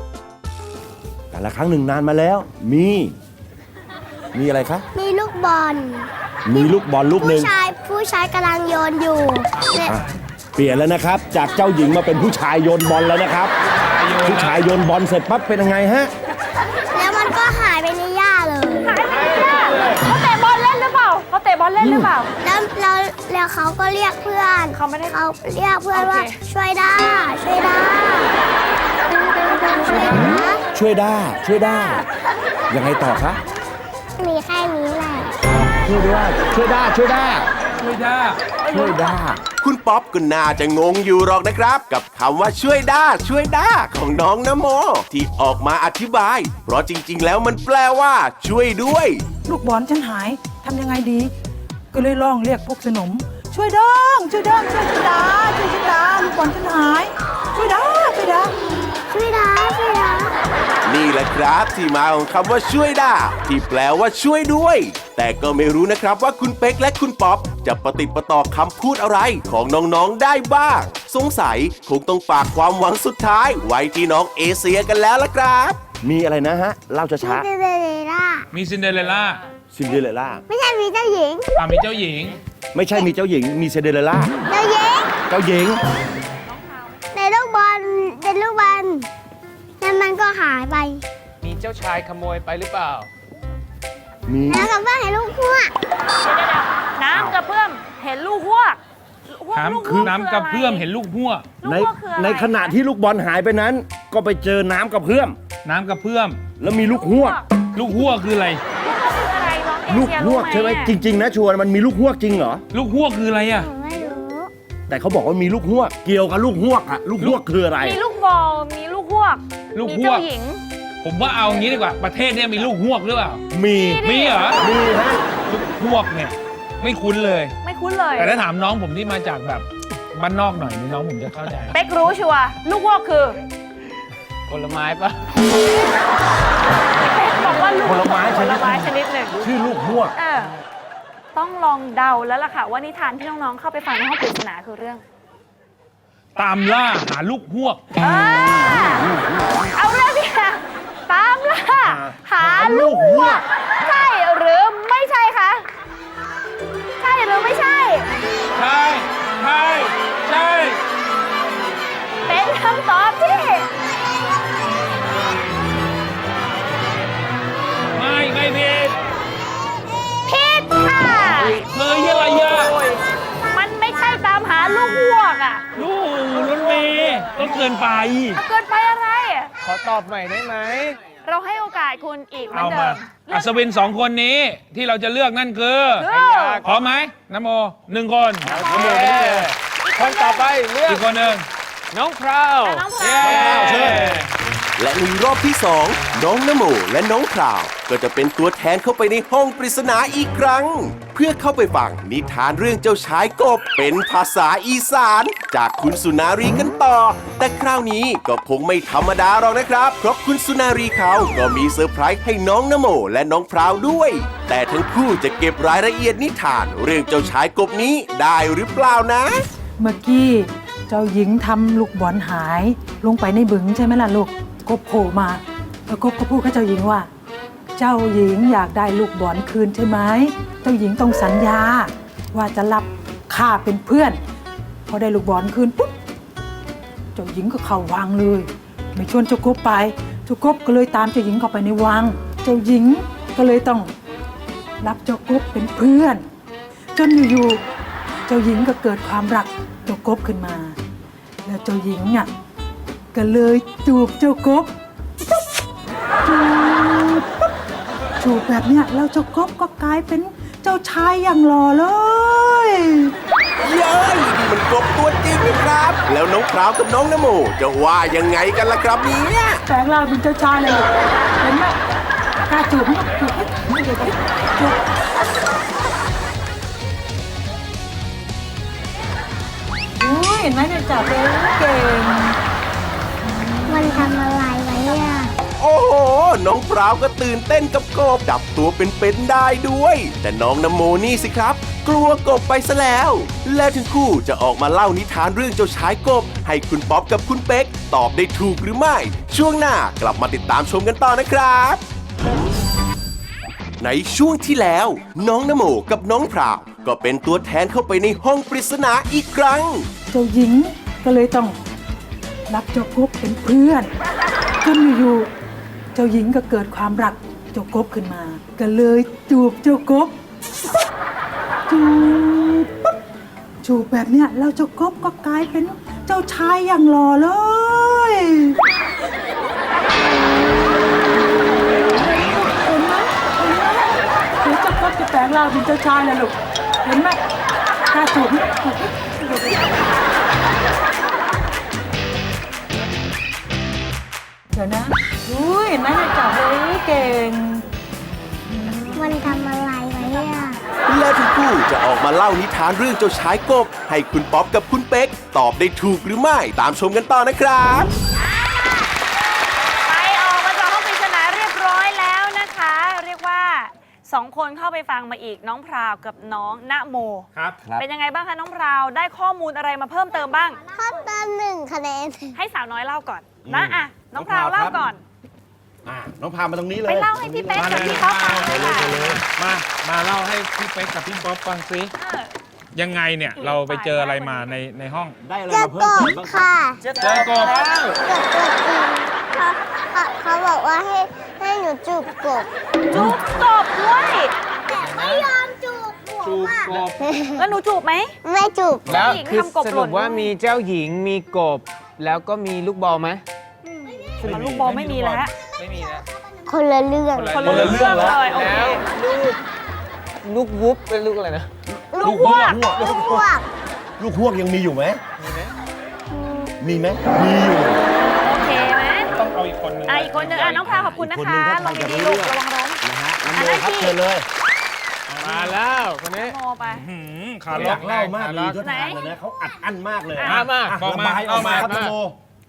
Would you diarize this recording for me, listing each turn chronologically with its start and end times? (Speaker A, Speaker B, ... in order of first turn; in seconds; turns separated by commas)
Speaker A: 1.3-3.1, Speaker A: 4.3-4.8, Speaker B: 4.9-9.9, Speaker A: 6.4-7.5, Speaker C: 9.6-10.0, Speaker A: 9.8-13.5, Speaker C: 13.7-14.6, Speaker A: 14.2-16.1, Speaker B: 16.9-19.0, Speaker D: 18.8-22.3, Speaker A: 21.8-22.1, Speaker B: 22.4-28.3, Speaker D: 24.7-25.2, Speaker D: 25.9-26.3, Speaker B: 29.1-30.6, Speaker D: 29.8-30.1, Speaker A: 30.7-32.0, Speaker A: 32.7-33.4, Speaker B: 34.2-35.3, Speaker A: 35.8-37.5, Speaker C: 37.8-38.5, Speaker D: 38.6-39.0, Speaker A: 38.7-39.4, Speaker E: 39.6-49.2, Speaker F: 49.5-51.3, Speaker F: 51.9-58.5, Speaker B: 59.1-60.3, Speaker E: 60.8-75.8, Speaker A: 76.0-77.5, Speaker B: 77.2-78.5, Speaker C: 78.5-79.4, Speaker A: 79.7-80.4, Speaker B: 80.5-81.5, Speaker C: 81.5-82.4, Speaker A: 82.7-84.4, Speaker B: 84.5-85.1, Speaker A: 85.3-85.8, Speaker B: 87.1-89.1, Speaker B: 89.8-91.0, Speaker G: 91.4-93.1, Speaker A: 94.3-94.7, Speaker B: 94.5-95.7, Speaker D: 96.2-100.9, Speaker C: 99.5-101.6, Speaker A: 99.8-100.1, Speaker D: 101.6-102.7, Speaker A: 101.6-105.4, Speaker C: 105.6-106.5, Speaker A: 106.6-107.4, Speaker D: 106.7-107.5, Speaker C: 107.6-108.6, Speaker D: 108.8-110.9, Speaker A: 109.9-112.6, Speaker C: 112.7-113.7, Speaker B: 113.5-114.5, Speaker A: 114.9-118.0, Speaker D: 117.8-120.6, Speaker C: 119.7-120.2, Speaker C: 121.0-123.4, Speaker A: 123.5-125.2, Speaker D: 123.8-124.7, Speaker C: 124.0-124.7, Speaker C: 125.5-127.5, Speaker D: 127.6-128.4, Speaker C: 128.2-131.7, Speaker G: 131.4-131.7, Speaker D: 131.7-133.4, Speaker G: 134.5-135.4, Speaker D: 137.0-139.4, Speaker A: 137.8-140.1, Speaker D: 140.2-140.5, Speaker D: 141.3-145.0, Speaker C: 146.3-147.9, Speaker D: 148.0-149.1, Speaker A: 148.5-149.7, Speaker D: 149.7-155.7, Speaker A: 151.8-153.4, Speaker D: 157.0-158.1, Speaker C: 158.5-160.8, Speaker D: 162.3-163.7, Speaker C: 167.9-169.0, Speaker D: 170.2-171.6, Speaker C: 171.4-172.8, Speaker D: 172.3-175.7, Speaker C: 175.8-178.4, Speaker D: 178.3-179.5, Speaker G: 179.6-181.0, Speaker D: 181.2-183.8, Speaker C: 182.5-186.1, Speaker D: 186.0-186.7, Speaker G: 186.0-186.9, Speaker C: 186.6-189.5, Speaker G: 188.4-191.2, Speaker D: 188.4-190.5, Speaker C: 190.8-191.4, Speaker G: 191.9-194.2, Speaker D: 192.6-193.9, Speaker C: 193.0-194.3, Speaker A: 193.3-194.2, Speaker E: 194.8-219.5, Speaker F: 219.8-227.1, Speaker F: 227.8-234.2, Speaker F: 234.9-235.9, Speaker F: 237.1-243.9, Speaker F: 244.8-246.2, Speaker F: 246.9-247.6, Speaker F: 248.3-250.8, Speaker F: 251.4-252.3, Speaker F: 253.1-254.7, Speaker F: 256.2-257.5, Speaker F: 258.2-263.1, Speaker E: 263.6-269.6, Speaker F: 269.7-271.8, Speaker F: 272.5-274.8, Speaker F: 280.0-282.4, Speaker B: 283.7-285.3, Speaker E: 285.6-301.8, Speaker E: 303.8-309.9, Speaker F: 310.1-311.6, Speaker F: 312.5-313.9, Speaker F: 314.6-315.3, Speaker F: 315.9-320.1, Speaker F: 321.7-323.0, Speaker F: 323.6-328.6, Speaker F: 331.9-337.2, Speaker F: 337.9-339.8, Speaker F: 344.5-347.6, Speaker F: 348.5-349.3, Speaker B: 348.9-350.6, Speaker E: 350.9-357.9, Speaker D: 358.2-358.9, Speaker D: 359.8-370.6, Speaker A: 367.4-367.9, Speaker B: 370.6-372.4, Speaker D: 372.4-375.0, Speaker A: 373.4-374.9, Speaker A: 375.8-379.2, Speaker D: 376.8-379.1, Speaker C: 377.5-381.9, Speaker D: 382.0-382.3, Speaker C: 382.7-385.2, Speaker D: 383.4-384.5, Speaker A: 385.2-386.5, Speaker B: 385.5-386.8, Speaker G: 386.8-388.0, Speaker C: 387.0-387.6, Speaker B: 388.0-392.5, Speaker D: 392.9-394.3, Speaker B: 394.7-397.4, Speaker G: 394.8-395.3, Speaker C: 396.2-396.9, Speaker G: 396.3-396.9, Speaker D: 397.4-398.1, Speaker B: 398.2-399.0, Speaker G: 398.9-403.2, Speaker D: 398.9-400.3, Speaker D: 403.6-405.3, Speaker G: 404.2-404.7, Speaker C: 404.2-406.0, Speaker B: 406.4-407.5, Speaker G: 407.1-409.4, Speaker D: 407.3-408.8, Speaker A: 407.4-408.2, Speaker C: 407.5-407.9, Speaker G: 410.2-411.5, Speaker A: 411.7-413.3, Speaker B: 411.9-413.4, Speaker C: 412.0-412.5, Speaker D: 412.2-412.5, Speaker A: 414.0-415.0, Speaker G: 415.2-415.5, Speaker B: 416.1-416.5, Speaker A: 416.6-417.8, Speaker D: 418.2-419.1, Speaker C: 419.1-421.0, Speaker D: 419.9-424.0, Speaker A: 420.6-424.2, Speaker G: 425.1-426.4, Speaker C: 425.2-425.6, Speaker D: 426.1-426.8, Speaker C: 426.7-428.6, Speaker G: 427.5-428.1, Speaker A: 427.5-432.2, Speaker D: 428.6-429.1, Speaker C: 430.2-431.9, Speaker G: 430.3-431.9